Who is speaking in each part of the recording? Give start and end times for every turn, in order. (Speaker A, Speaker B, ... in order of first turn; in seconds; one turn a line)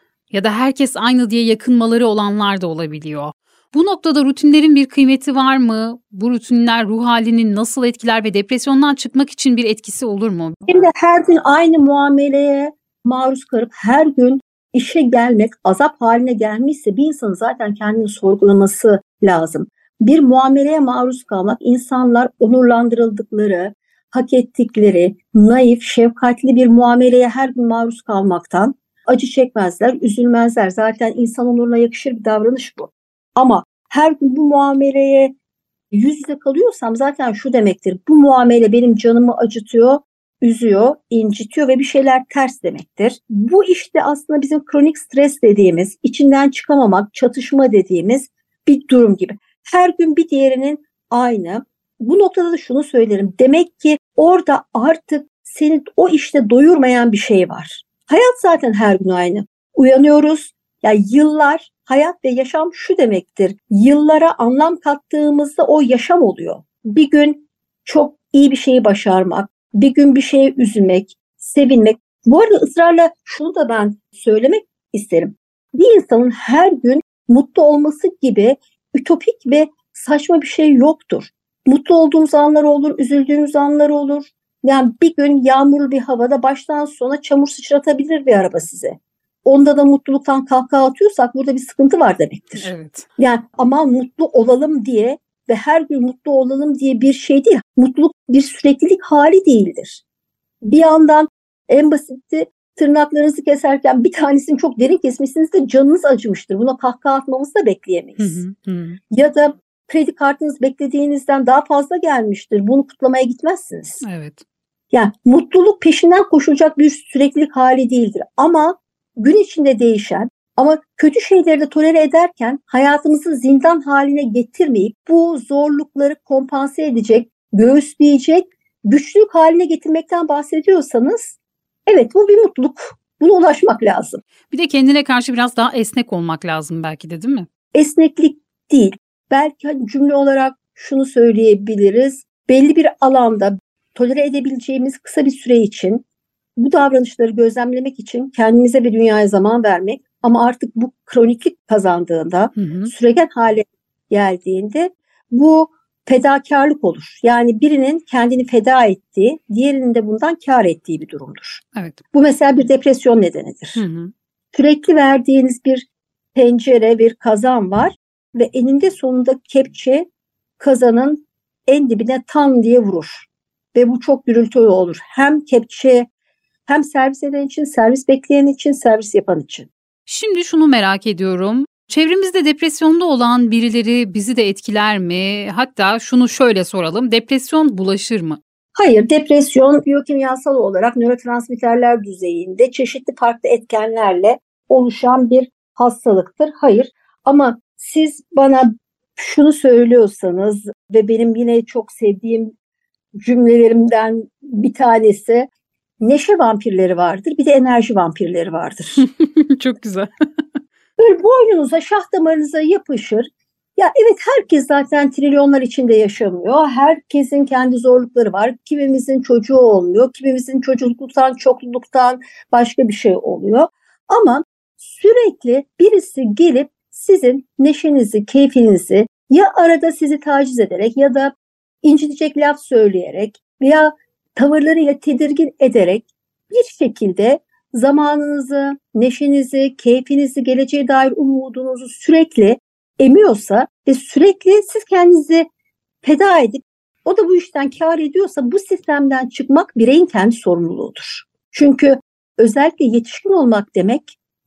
Speaker A: 0.3-10.9
Speaker B: 10.7-35.3
Speaker B: 35.9-100.0
Speaker A: 92.6-93.1
Speaker B: 100.6-108.4
Speaker A: 108.2-109.0
Speaker B: 109.1-114.0
Speaker A: 114.0-114.4
Speaker B: 114.9-134.2
Speaker A: 134.5-137.5
Speaker B: 137.7-146.0
Speaker B: 146.6-163.8
Speaker A: 152.6-152.9
Speaker A: 163.8-164.1
Speaker B: 164.5-170.1
Speaker B: 170.6-176.1
Speaker B: 176.7-179.7
Speaker A: 180.1-188.4
Speaker B: 188.8-202.5
Speaker B: 203.2-205.5
Speaker B: 206.0-209.0
Speaker A: 209.0-210.1
Speaker B: 211.0-245.5
Speaker B: 246.0-254.2